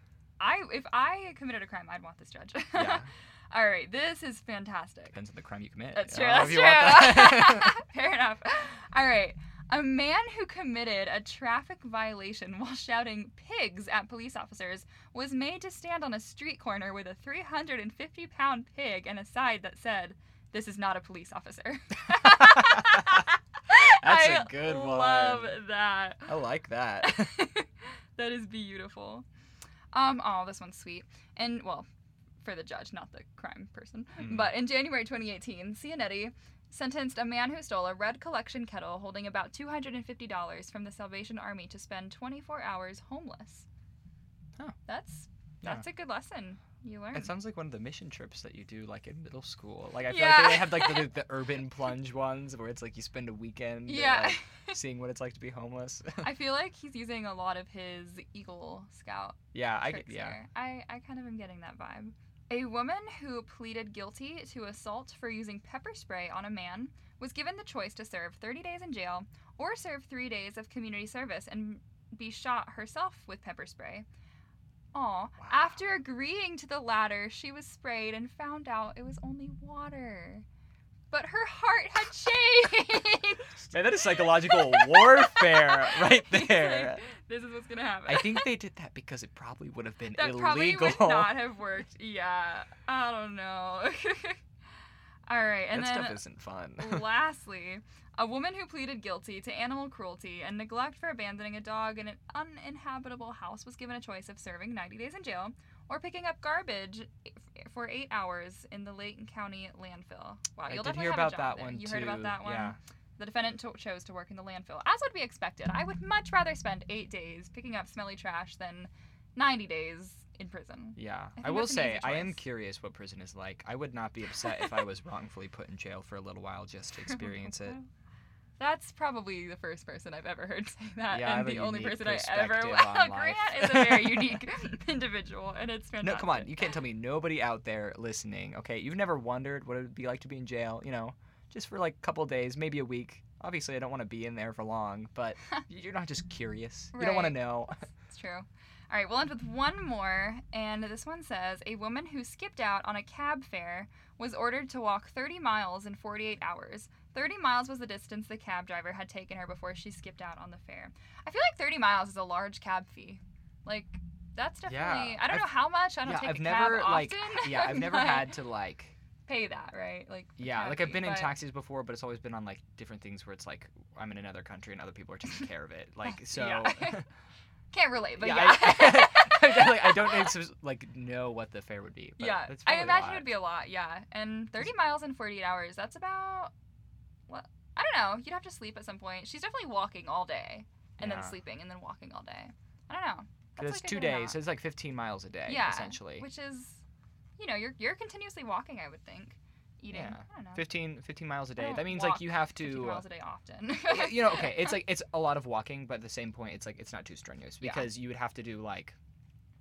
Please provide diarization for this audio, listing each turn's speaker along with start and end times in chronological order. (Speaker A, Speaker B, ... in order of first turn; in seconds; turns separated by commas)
Speaker A: 0.4-5.2, Speaker B: 2.7-3.1, Speaker B: 5.1-7.7, Speaker A: 5.9-26.3, Speaker B: 22.3-22.9, Speaker B: 24.0-25.6, Speaker B: 26.3-27.3, Speaker A: 27.0-29.2, Speaker A: 29.9-31.9, Speaker A: 32.4-43.6, Speaker B: 34.2-34.6, Speaker A: 44.9-47.3, Speaker B: 47.1-56.3, Speaker A: 50.0-51.2, Speaker A: 53.9-54.8, Speaker A: 56.2-74.0, Speaker B: 59.5-60.4, Speaker A: 74.9-80.5, Speaker B: 75.4-75.7, Speaker A: 81.1-88.5, Speaker B: 83.7-87.0, Speaker B: 88.0-91.4, Speaker A: 90.1-94.4, Speaker A: 95.3-96.2, Speaker B: 95.7-97.2, Speaker A: 96.8-122.4, Speaker B: 110.7-112.8, Speaker B: 121.0-127.8, Speaker A: 124.3-124.8, Speaker A: 127.0-127.9, Speaker A: 128.6-136.8, Speaker B: 131.1-134.4, Speaker B: 136.0-147.8, Speaker A: 146.9-168.4, Speaker B: 164.7-168.9, Speaker A: 169.3-171.4, Speaker B: 170.4-177.1, Speaker A: 176.1-177.0, Speaker A: 177.7-180.3, Speaker B: 178.2-183.4, Speaker A: 182.2-186.5, Speaker A: 187.3-194.4, Speaker B: 191.0-191.3, Speaker B: 193.6-196.2, Speaker A: 195.4-196.8, Speaker A: 197.4-200.7, Speaker B: 199.9-203.0, Speaker A: 201.5-204.8, Speaker B: 203.8-208.9, Speaker A: 207.6-207.9